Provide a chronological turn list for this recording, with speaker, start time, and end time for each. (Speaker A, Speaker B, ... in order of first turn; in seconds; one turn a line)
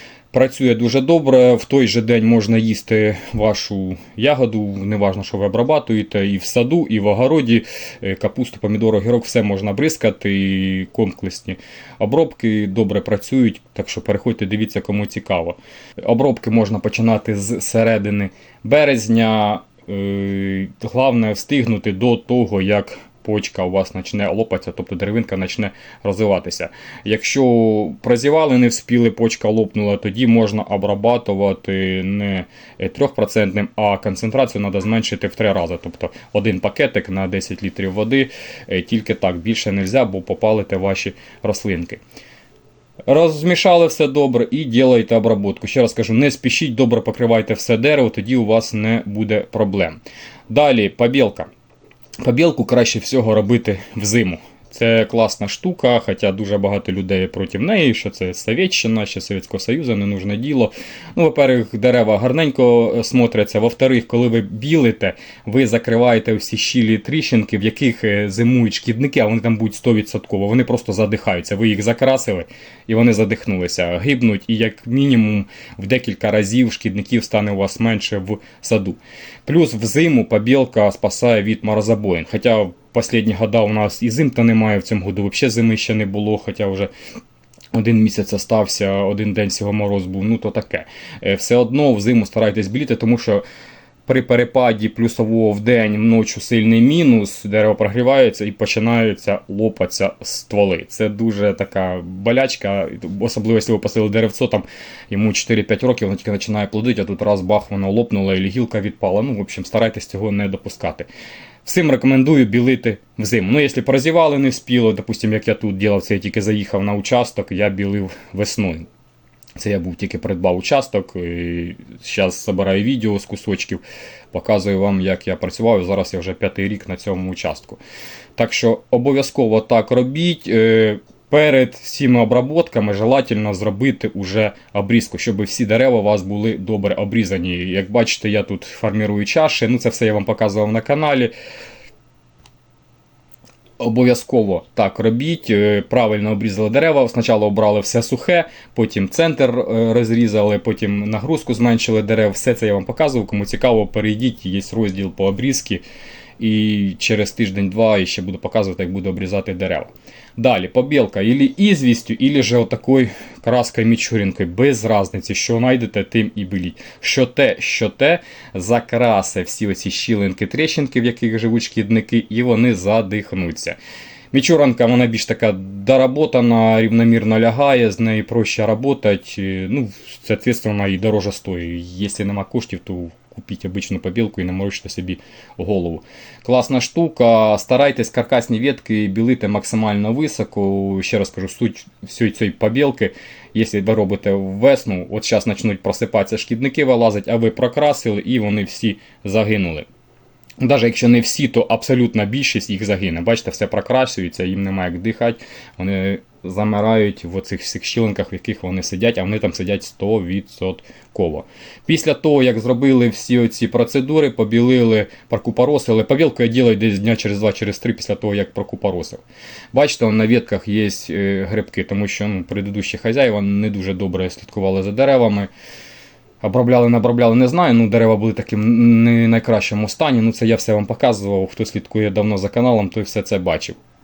Speaker A: 0.3-42.0
Speaker A: 43.1-51.5
Speaker A: 52.2-86.9
Speaker A: 87.7-93.4
Speaker A: 94.1-111.1
Speaker A: 111.6-118.9
Speaker A: 119.6-127.8
Speaker A: 128.4-141.3
Speaker A: 143.8-155.8
Speaker A: 156.4-173.8
Speaker A: 174.3-199.9
Speaker A: 200.6-225.5
Speaker A: 226.4-233.8